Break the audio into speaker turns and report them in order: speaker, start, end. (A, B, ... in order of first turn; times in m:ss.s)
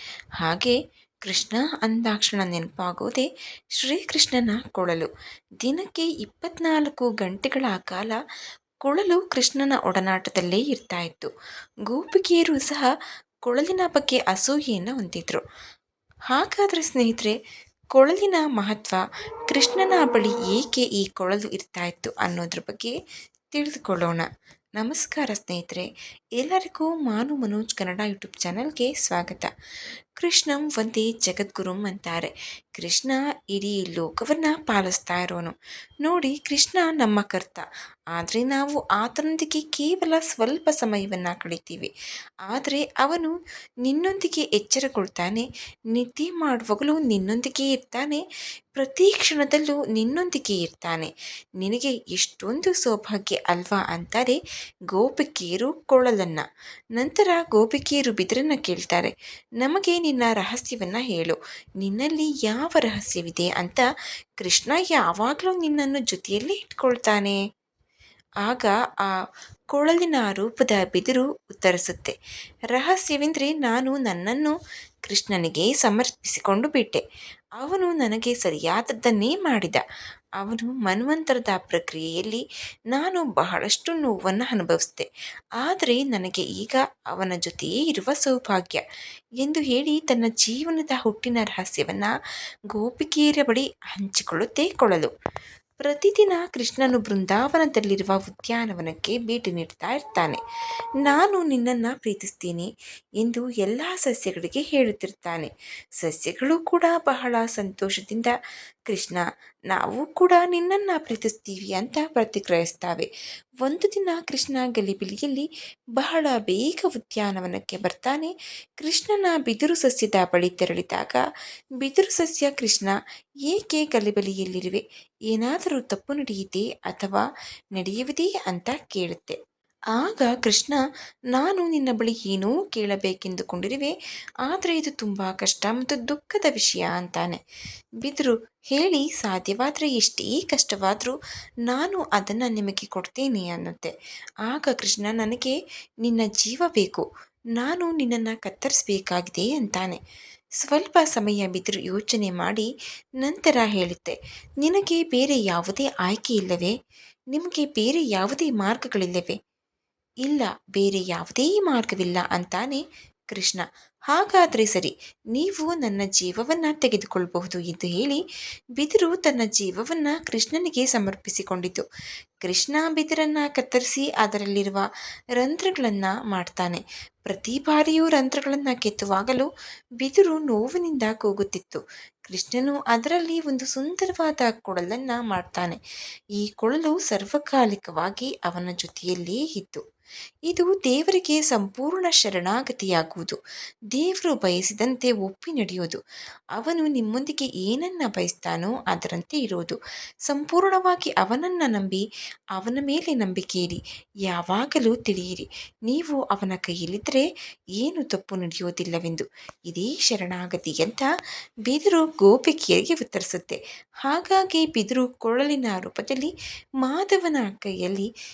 0:00.4-0:03.3 A
0:03.8-0:05.1 A
0:05.6-0:08.2 A
0:08.8-0:11.3 A
0:11.9-0:12.9 A
0:13.5-0:15.4 A
0:16.3-0:17.3 A
0:17.9-0:22.9 A
0:23.5-0:25.9 A
0:26.4-0:29.5 A
0:30.2-0:41.9 A
0:42.5-0:43.3 A
0:43.8-0:48.2 A
0:48.8-0:54.4 A
0:54.9-0:56.4 A
0:57.0-1:03.8 A
1:04.4-1:07.4 A
1:08.4-1:09.1 A
1:09.7-1:12.1 A
1:12.7-1:14.5 A
1:15.1-1:17.0 A
1:17.6-1:19.8 A
1:20.4-1:25.1 A
1:25.6-1:28.8 A
1:29.4-1:32.1 A
1:32.7-1:35.1 A
1:35.8-1:40.4 A
1:41.0-1:42.7 A
1:43.2-1:45.5 A
1:46.0-1:48.3 A
1:48.9-1:53.1 A
1:53.6-1:55.5 A
1:56.0-2:01.2 A
2:01.8-2:02.9 A
2:03.5-2:07.2 A
2:07.8-2:09.4 A
2:10.0-2:10.8 A
2:11.3-2:13.9 A
2:14.5-2:17.4 A
2:18.0-2:21.2 A
2:21.7-2:23.9 A
2:24.5-2:27.0 A
2:27.6-2:30.0 A
2:30.6-2:32.7 A
2:33.2-2:36.7 A
2:37.3-2:39.4 A
2:40.2-2:48.2 A
2:48.8-2:51.8 A
2:52.4-2:54.8 A
2:55.4-2:59.5 A
3:00.0-3:05.8 A
3:06.4-3:09.8 A
3:10.5-3:13.4 A
3:13.9-3:16.0 A
3:16.6-3:22.0 A
3:22.6-3:27.2 A
3:27.8-3:31.1 A
3:31.7-3:38.1 A